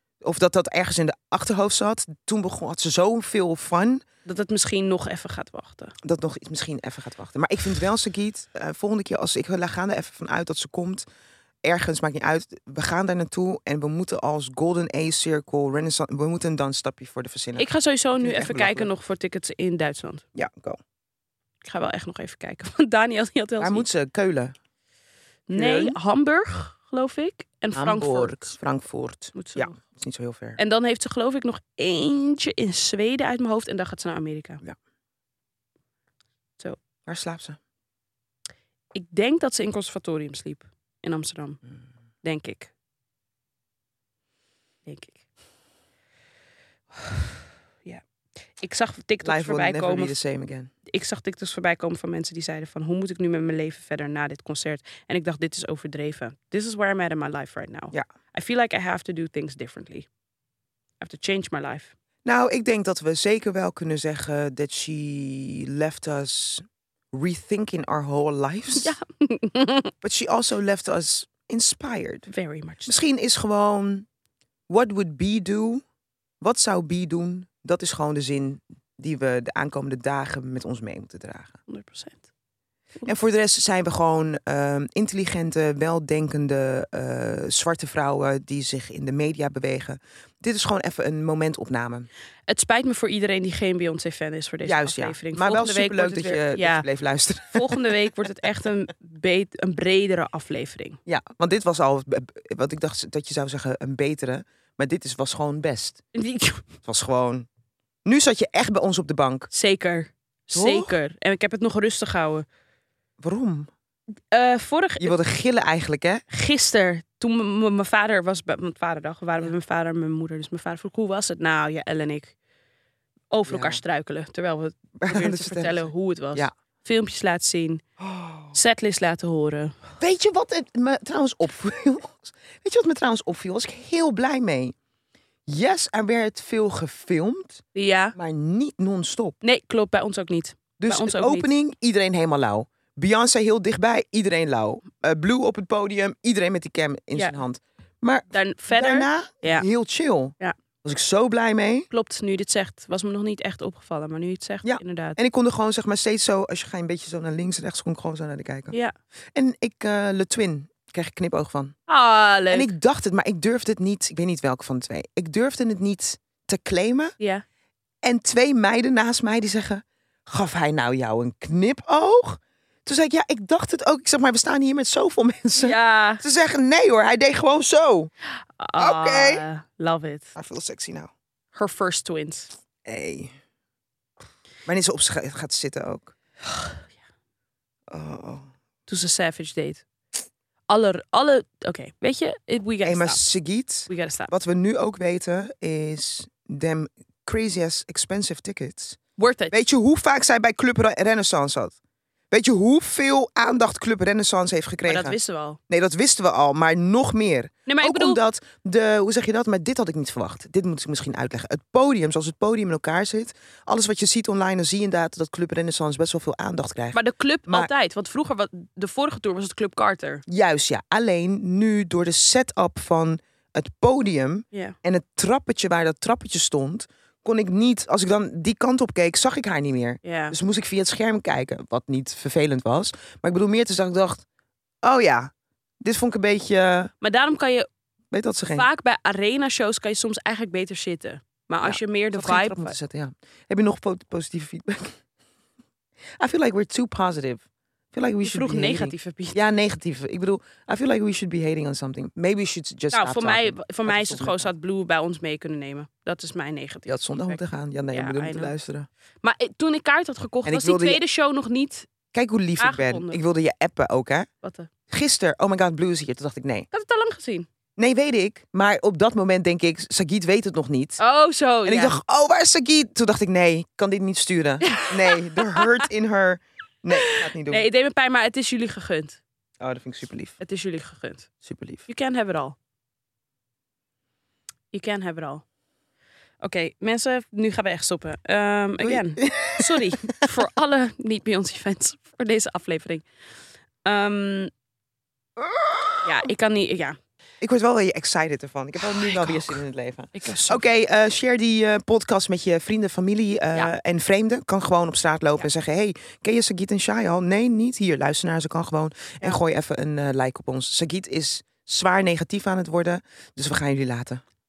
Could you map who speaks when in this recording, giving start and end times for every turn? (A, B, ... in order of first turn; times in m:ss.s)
0:00.2-0:04.0 A
0:04.2-0:05.9 B
0:06.0-0:11.0 A
0:11.6-0:18.9 A
0:17.6-0:20.2 B
0:20.3-0:20.8 A
0:21.6-0:23.8 B
0:23.6-0:24.5 A
0:25.5-0:28.5 B
0:25.5-0:26.0 A
0:27.7-0:30.6 A
0:29.3-0:29.8 B
0:30.6-0:34.6 B
0:37.0-0:37.6 A
0:38.9-0:41.6 B
0:42.2-0:42.7 B
0:44.9-0:45.2 B
0:46.9-0:48.0 B
0:48.6-0:50.2 B
0:49.2-0:50.7 A
0:50.9-1:00.1 B
1:01.0-1:01.9 B
1:02.2-1:09.0 A
1:08.7-1:09.9 B
1:10.0-1:12.3 A
1:12.3-1:12.9 B
1:12.8-1:14.0 A
1:14.7-1:15.8 A
1:16.4-1:21.6 A
1:21.7-1:22.3 B
1:23.0-1:32.1 A
1:32.5-1:36.8 B
1:34.6-1:37.8 A
1:37.5-1:41.0 B
1:41.0-1:46.0 A
1:46.1-1:46.6 B
1:46.8-1:47.5 A
1:48.0-1:49.5 A
1:49.5-1:52.4 B
1:50.5-1:50.9 A
1:53.2-1:53.7 A
1:54.3-1:55.2 B
1:55.0-1:56.2 A
1:56.3-2:02.4 B
2:03.3-2:07.8 B
2:03.5-2:03.8 A
2:05.0-2:06.5 A
2:08.0-2:08.5 A
2:08.5-2:09.8 B
2:10.0-2:14.7 A
2:15.5-2:17.6 A
2:17.7-2:18.1 B
2:18.1-2:19.4 A
2:19.4-2:21.5 B
2:20.8-2:31.9 A
2:28.3-2:29.7 B
2:31.9-2:35.2 B
2:34.6-2:38.7 A
2:39.3-2:41.8 A
2:41.9-2:42.7 B
2:42.5-2:47.1 A
2:48.0-2:58.1 A
2:55.6-2:56.2 B
2:58.3-3:00.3 B
2:58.8-2:59.4 A
3:00.3-3:01.1 A
3:01.5-3:02.5 B
3:02.8-3:03.3 A
3:04.6-3:06.1 A
3:06.5-3:06.8 B
3:07.9-3:08.5 A
3:08.9-3:09.8 B
3:10.7-3:13.2 B
3:12.8-3:19.0 A
3:13.9-3:14.3 B
3:19.2-3:19.5 B
3:19.5-3:21.7 A
3:22.3-3:25.2 A
3:24.8-3:25.6 B
3:25.7-3:37.7 A
3:27.7-3:28.2 B
3:36.9-3:40.2 B
3:40.3-3:54.2 A
3:50.0-3:50.3 B
3:54.8-3:55.3 A
3:55.8-3:56.9 A
3:57.0-3:57.7 B
3:58.1-3:58.7 A
3:58.5-4:02.7 B
4:01.6-4:05.0 A
4:06.2-4:14.5 A
4:08.2-4:09.4 B
4:12.9-4:17.4 B
4:16.9-4:18.9 A
4:17.9-4:18.5 B
4:19.2-4:21.9 B
4:20.4-4:21.0 A
4:22.1-4:24.3 A
4:22.6-4:23.2 B
4:24.4-4:24.7 B
4:24.9-4:26.7 A
4:26.7-4:27.5 B
4:27.8-4:31.0 A
4:31.0-4:32.0 B
4:31.6-4:37.7 A
4:34.6-4:35.8 B
4:36.9-4:39.2 B
4:39.6-4:40.4 A
4:40.4-4:41.3 B
4:41.4-4:41.8 A
4:41.9-4:42.6 B
4:44.7-4:45.4 B
4:46.4-4:53.0 B
4:48.8-4:50.2 A
4:53.8-4:54.5 B
4:55.4-4:56.2 A
4:56.0-4:57.0 B
4:57.4-5:14.2 A
4:58.9-4:59.6 B
5:00.1-5:00.6 B